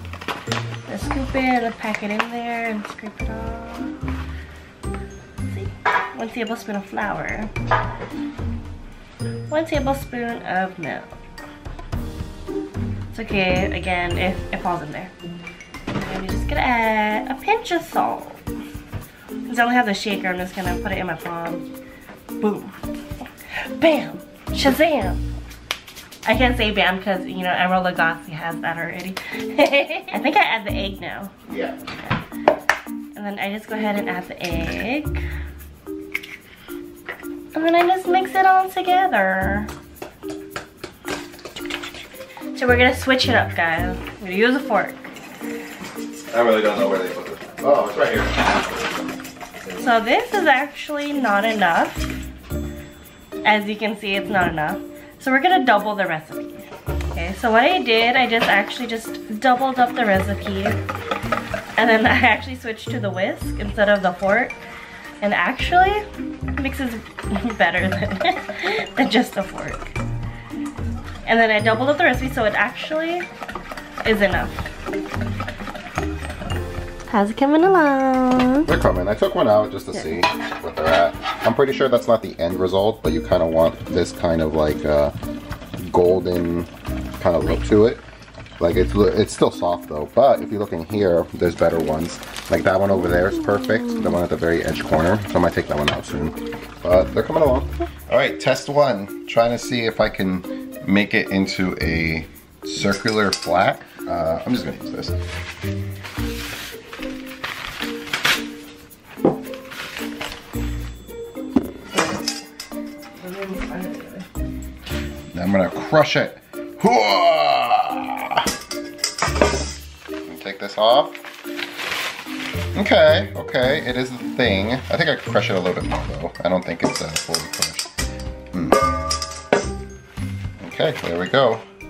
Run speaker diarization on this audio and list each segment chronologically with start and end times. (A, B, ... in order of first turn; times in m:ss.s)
0:00.9-0:04.0 A
0:05.4-0:07.5 A
0:09.5-0:11.1 A
0:13.1-0:15.1 A
0:15.9-0:18.4 A
0:19.4-0:21.6 A
0:22.4-0:22.8 A
0:23.7-0:25.2 A
0:26.2-0:31.3 A
0:31.5-0:31.8 B
0:33.1-0:35.2 A
0:37.5-0:39.7 A
0:42.5-0:45.1 A
0:46.3-0:48.9 B
0:49.8-0:52.1 A
0:53.4-1:00.8 A
1:01.8-1:04.6 A
1:05.2-1:06.0 A
1:06.6-1:09.9 A
1:11.2-1:13.3 A
1:14.0-1:14.6 A
1:17.1-1:18.7 A
1:18.7-1:25.1 B
1:25.8-1:28.0 B
1:28.6-1:45.2 B
1:51.9-1:52.3 A
1:53.2-1:54.2 A
1:55.3-1:58.5 B
2:00.2-2:01.2 B
2:02.8-2:07.9 B
2:08.5-2:08.8 B
2:10.6-2:11.6 B